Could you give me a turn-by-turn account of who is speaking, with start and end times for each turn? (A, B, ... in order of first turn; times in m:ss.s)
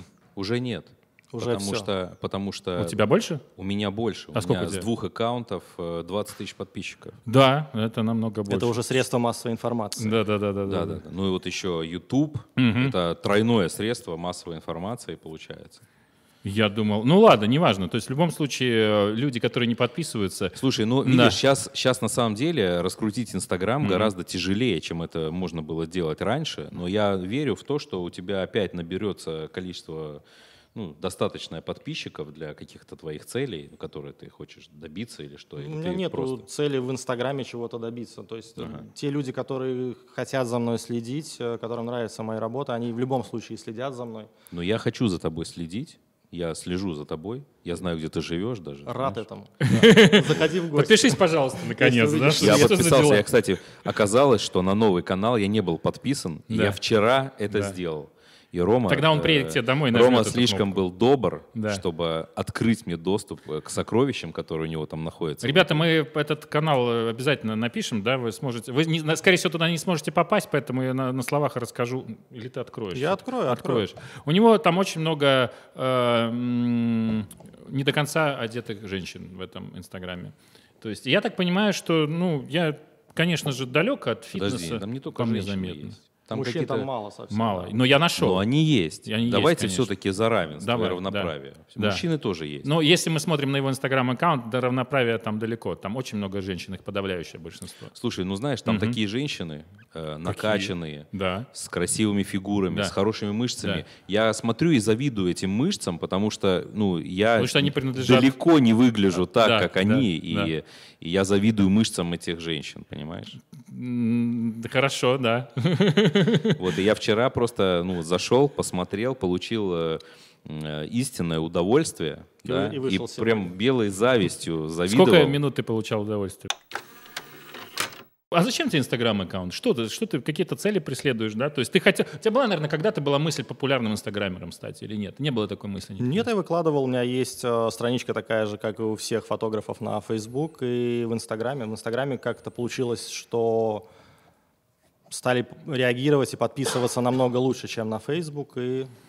0:00.3-0:03.0 A
0:01.3-0:01.9 B
0:02.8-0:03.4 C
0:03.6-0:07.2 A
0:04.3-0:04.9 C
0:07.3-0:08.7 C
0:08.5-0:10.2 B
0:10.0-0:11.0 C
0:10.6-0:15.8 A
0:12.6-0:12.9 C
0:16.4-0:21.4 C
0:20.6-0:30.2 A
0:23.8-0:24.1 C
0:30.7-0:36.4 A
0:35.6-0:44.3 B
0:38.6-0:38.8 A
0:44.5-0:49.2 A
0:48.8-0:53.0 B
0:49.6-0:53.2 C
0:52.4-1:05.8 A
0:56.5-0:56.8 C
0:58.9-1:00.8 C
1:01.5-1:01.8 C
1:05.4-1:26.0 C
1:12.9-1:13.8 B
1:24.3-1:26.9 A
1:26.3-1:27.7 B
1:27.3-1:28.4 C
1:28.2-1:32.7 A
1:29.0-1:29.9 C
1:30.6-1:32.0 C
1:32.6-1:37.9 C
1:37.9-1:53.4 A
1:38.6-1:39.0 C
1:40.2-1:41.5 C
1:47.3-1:48.3 C
1:49.4-1:50.5 C
1:53.6-1:56.6 C
1:56.6-2:05.4 A
2:02.4-2:03.5 B
2:04.9-2:06.5 C
2:08.3-2:16.2 C
2:16.0-2:23.8 B
2:25.1-2:28.9 B